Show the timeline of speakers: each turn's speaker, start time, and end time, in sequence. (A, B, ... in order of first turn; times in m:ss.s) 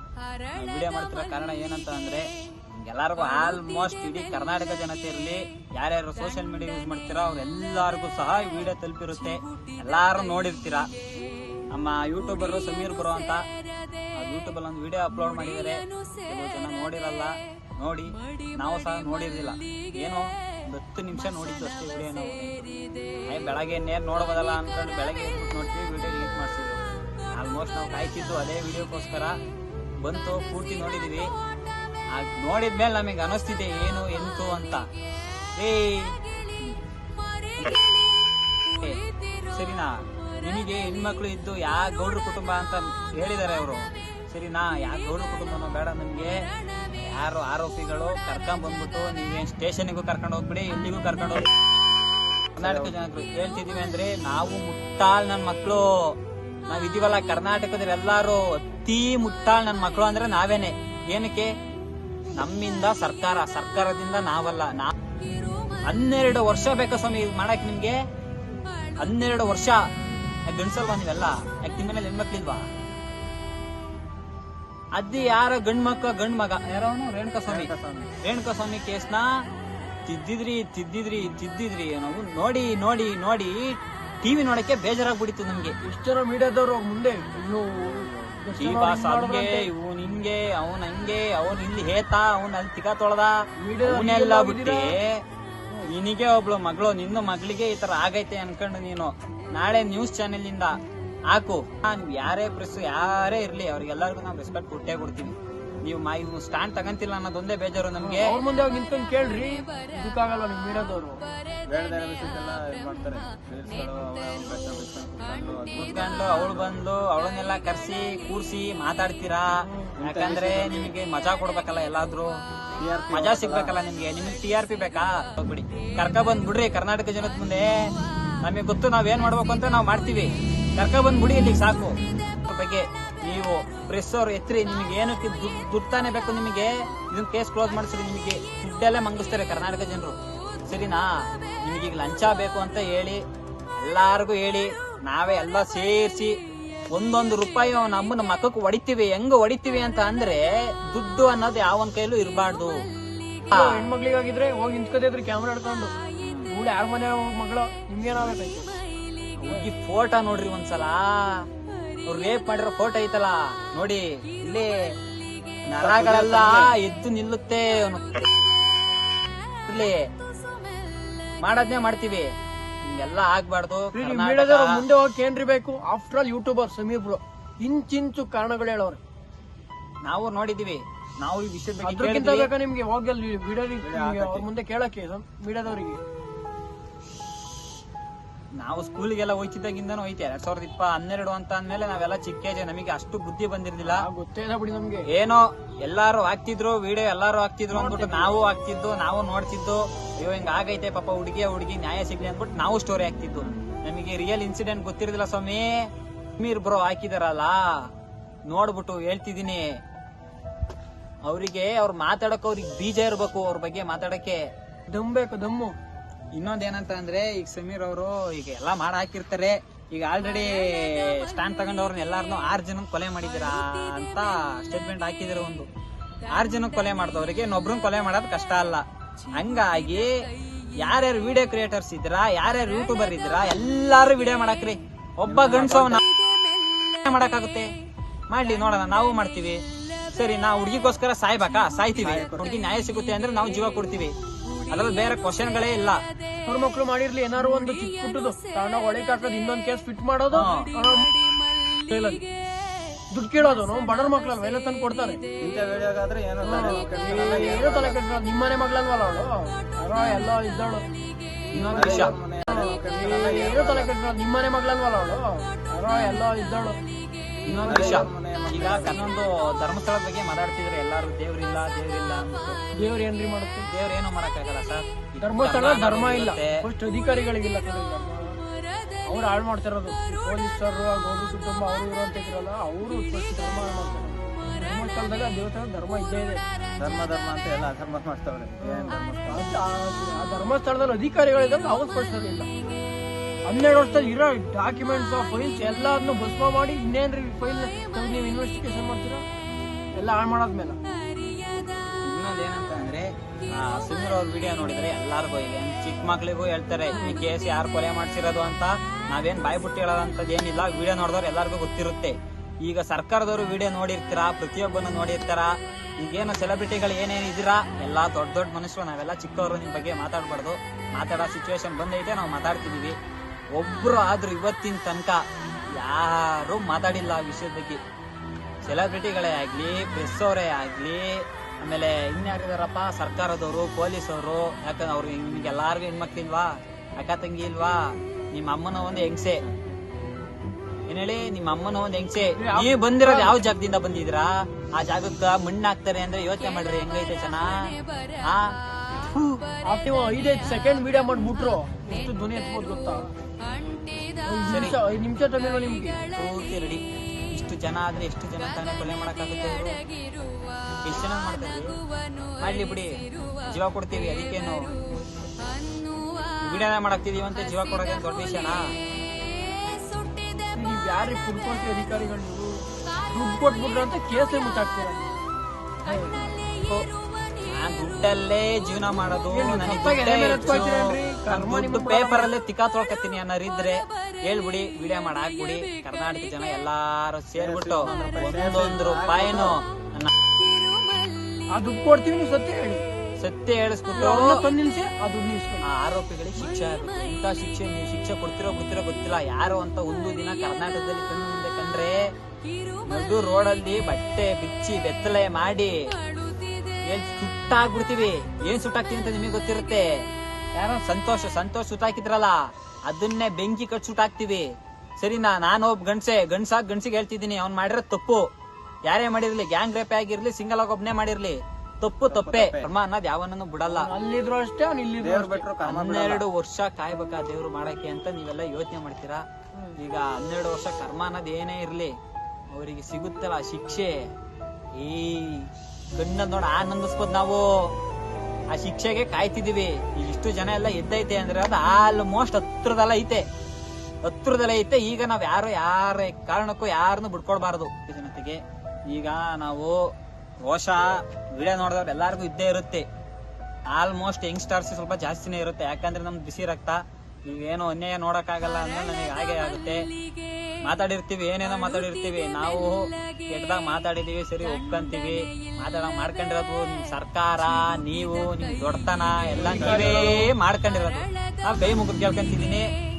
0:00.5-0:10.9 A
0:11.7-0:13.5 A
0:14.2-0:26.8 A
0:27.3-0:29.4 A
0:30.0-0:31.3 A
0:32.1-0:34.9 A
0:35.6-0:36.2 A
0:38.7-0:51.5 A
0:52.6-0:56.1 A
0:52.6-0:52.9 B
0:56.7-1:01.5 A
1:02.4-1:04.9 A
1:05.9-1:08.0 A
1:09.0-1:09.8 A
1:10.5-1:12.7 A
1:15.0-1:17.7 A
1:17.5-1:18.1 B
1:18.2-1:19.2 A
1:20.1-1:25.8 A
1:25.8-1:29.7 C
1:28.0-1:28.3 B
1:28.6-1:33.3 A
1:33.6-1:35.0 C
1:33.8-1:35.2 A
1:35.9-1:40.8 A
1:41.3-1:48.4 A
1:48.0-1:51.2 C
1:51.7-1:56.8 B
1:55.8-2:02.4 A
2:00.0-2:01.0 B
2:02.8-2:03.8 B
2:03.1-2:07.8 A
2:08.4-2:20.2 A
2:20.7-2:23.2 A
2:23.8-2:26.4 A
2:26.9-2:32.8 A
2:33.5-2:33.8 A
2:33.5-2:35.9 C
2:36.2-2:36.5 A
2:36.5-2:38.7 C
2:39.4-2:41.4 A
2:42.1-2:44.7 A
2:45.7-2:48.2 A
2:45.8-2:46.7 B
2:49.6-2:50.1 A
2:51.4-2:52.3 A
2:52.8-2:54.8 A
2:53.9-2:59.0 C
3:00.0-3:02.5 A
3:01.8-3:06.0 C
3:03.8-3:04.5 B
3:08.6-3:14.1 A
3:13.8-3:15.1 C
3:15.1-3:25.9 A
3:17.7-3:18.4 C
3:26.4-3:27.9 A
3:28.5-3:29.8 A
3:31.3-3:34.4 A
3:34.9-3:35.8 C
3:36.4-3:45.7 A
3:46.3-3:50.2 A
3:50.8-3:56.0 A
3:55.3-3:56.0 B
3:56.9-3:57.7 A
3:58.3-4:04.1 A
4:02.0-4:02.5 B
4:04.7-4:06.0 A
4:06.5-4:11.1 C
4:10.3-4:10.7 A
4:11.8-4:12.2 C
4:13.1-4:15.2 C
4:15.4-4:18.0 B
4:16.4-4:20.9 C
4:21.5-4:22.2 A
4:21.6-4:26.8 C
4:21.7-4:23.9 B
4:25.9-4:26.2 A
4:27.5-4:32.6 A
4:27.5-4:27.9 C
4:27.7-4:29.2 B
4:32.8-4:33.7 C
4:33.7-4:36.6 A
4:35.2-4:38.4 C
4:39.1-4:46.4 C
4:46.8-4:49.6 B
4:48.6-4:52.5 C
4:53.5-4:59.2 C
5:00.0-5:00.8 C
5:02.0-5:23.0 A
5:23.6-5:25.2 A
5:25.8-5:27.8 A
5:28.6-5:39.4 A
5:40.9-5:49.4 A
5:42.4-5:43.5 C
5:49.7-5:53.1 C
5:54.2-5:56.0 C
5:54.5-5:54.8 A
5:56.1-5:59.8 A
6:00.8-6:01.8 A
6:02.4-6:04.7 A
6:06.4-6:08.7 A
6:10.5-6:15.1 C
6:15.8-6:16.2 C
6:16.1-6:30.1 A
6:19.3-6:22.3 C
6:27.4-6:29.6 B
6:31.5-6:32.8 C
6:33.2-6:34.3 A
6:34.0-6:35.6 C
6:35.7-6:42.1 A
6:42.8-6:45.8 A
6:46.9-6:49.9 A
6:50.6-6:52.4 A
6:52.9-6:58.3 A
6:58.9-7:03.9 A
7:02.1-7:02.7 B
7:03.6-7:05.5 C
7:05.0-7:06.2 B
7:05.6-7:09.2 A
7:09.8-7:11.9 A
7:12.5-7:14.1 A
7:14.8-7:17.7 A
7:18.5-7:23.3 A
7:24.0-7:29.9 A
7:30.4-7:32.9 A
7:33.7-7:39.8 A
7:40.6-7:52.7 A
7:49.4-7:50.3 C
7:49.4-7:50.2 B